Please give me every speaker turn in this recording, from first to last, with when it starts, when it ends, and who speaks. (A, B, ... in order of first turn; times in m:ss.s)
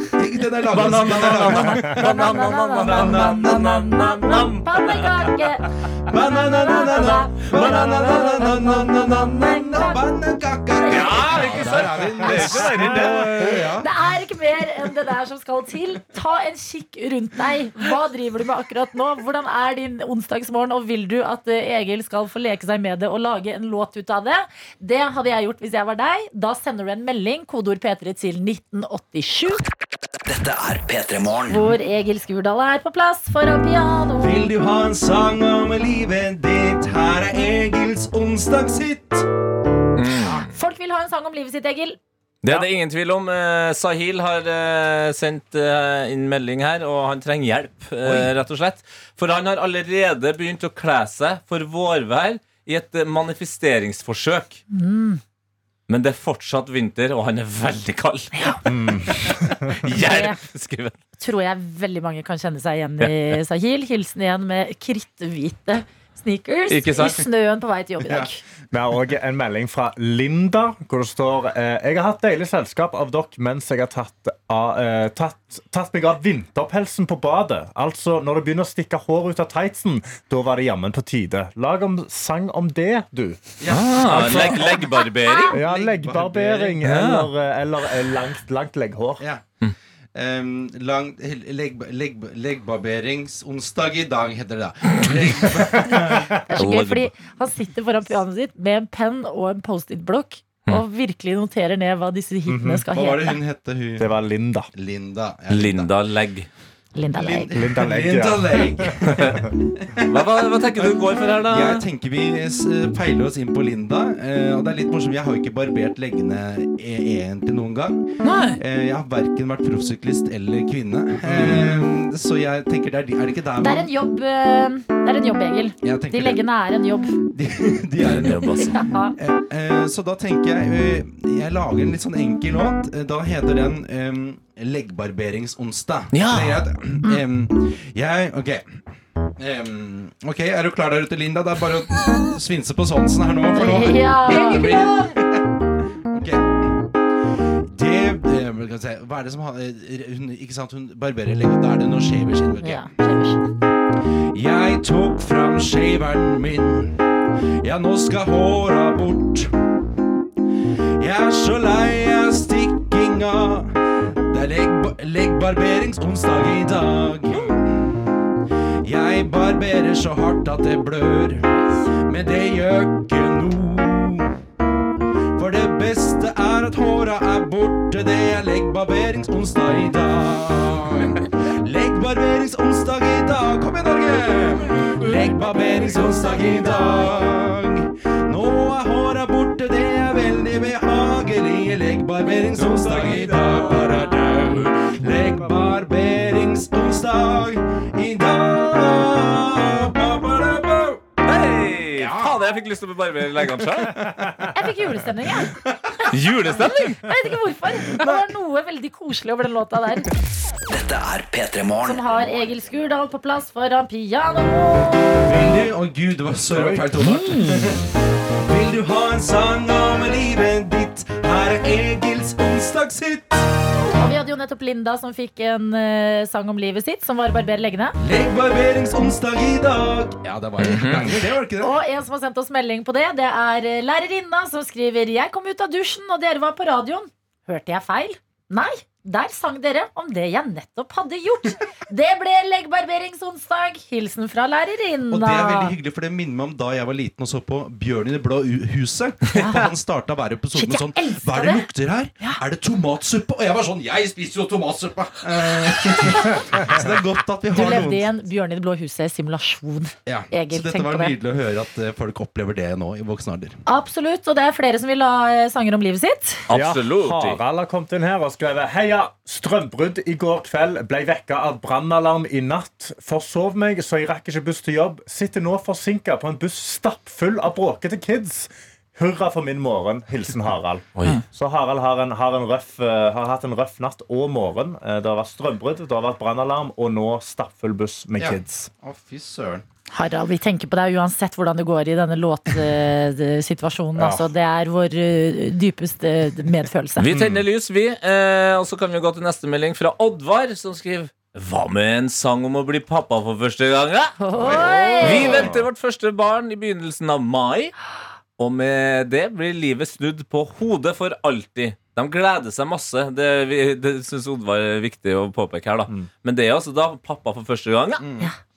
0:00.2-0:04.0 A
0:00.7-0:05.1 B
0:01.4-0:10.0 C
0:06.0-0:13.9 A
0:10.8-0:11.8 C
0:10.9-0:13.6 B
0:13.5-0:29.6 C
0:30.2-0:31.7 D
0:31.5-0:34.5 C
0:34.2-0:39.2 A
0:40.0-0:40.5 B
0:40.3-0:42.0 C
0:42.4-0:54.6 B
0:48.0-0:48.3 A
0:54.7-0:55.2 C
0:55.9-1:00.9 B
0:58.6-0:59.7 E
1:00.0-1:00.4 C
1:01.2-1:08.4 C
1:03.0-1:03.4 B
1:06.7-1:07.2 B
1:08.0-1:08.3 A
1:08.7-1:24.6 E
1:23.6-1:24.9 A
1:23.7-1:25.6 B
1:25.2-1:25.5 C
1:25.5-1:29.2 E
1:25.6-1:26.8 A
1:26.8-1:27.3 B
1:30.1-1:36.4 A
1:36.5-1:43.4 C
1:36.6-1:37.1 B
1:42.5-1:42.8 E
1:42.9-1:44.2 A
1:44.0-1:44.7 E
1:44.7-1:45.9 A
1:45.5-1:46.5 B
1:46.9-1:47.6 C
1:47.1-2:03.9 A
1:47.5-1:48.9 E
1:50.1-1:51.8 B
1:58.2-1:58.6 B
2:01.3-2:01.6 B
2:03.6-2:07.1 C
2:05.8-2:06.4 A
2:07.3-2:08.6 A
2:08.2-2:08.8 B
2:08.6-2:09.1 C
2:09.2-2:18.9 A
2:16.1-2:16.6 B
2:19.4-2:25.4 A
2:23.5-2:25.1 C
2:26.1-2:26.9 A
2:27.7-2:32.9 A
2:32.6-2:33.4 C
2:34.3-2:37.0 A
2:37.6-2:39.5 A
2:41.0-2:43.7 A
2:44.3-2:48.0 A
2:48.8-2:51.4 A
2:52.0-2:54.3 A
2:55.3-3:21.0 A
3:06.3-3:07.0 C
3:12.5-3:14.0 B
3:21.2-3:24.0 B
3:21.9-3:22.4 A
3:23.4-3:24.5 A
3:24.5-3:30.0 C
3:25.5-3:25.7 A
3:26.1-3:27.0 B
3:28.0-3:28.2 A
3:30.7-3:32.0 D
3:31.8-3:35.3 C
3:35.2-3:37.8 A
3:36.5-3:37.4 E
3:38.4-3:43.5 A
3:43.8-3:47.9 C
3:48.0-3:51.7 A
3:50.6-3:51.1 B
3:51.6-4:05.7 C
4:05.1-4:18.1 A
4:09.3-4:09.7 C
4:10.5-4:11.7 C
4:16.0-4:16.4 C
4:17.5-4:21.2 C
4:20.0-4:23.6 A
4:23.6-4:26.4 C
4:26.5-4:27.4 B
4:26.5-4:48.6 E
4:41.0-4:41.2 B
4:48.2-4:49.6 A
4:49.9-4:57.1 C
4:54.0-4:54.3 E
4:57.0-5:04.1 B
4:57.1-4:57.4 A
5:04.2-5:05.4 C
5:04.4-5:05.7 E
5:05.0-5:07.7 B
5:08.4-5:18.0 B
5:18.0-5:18.3 A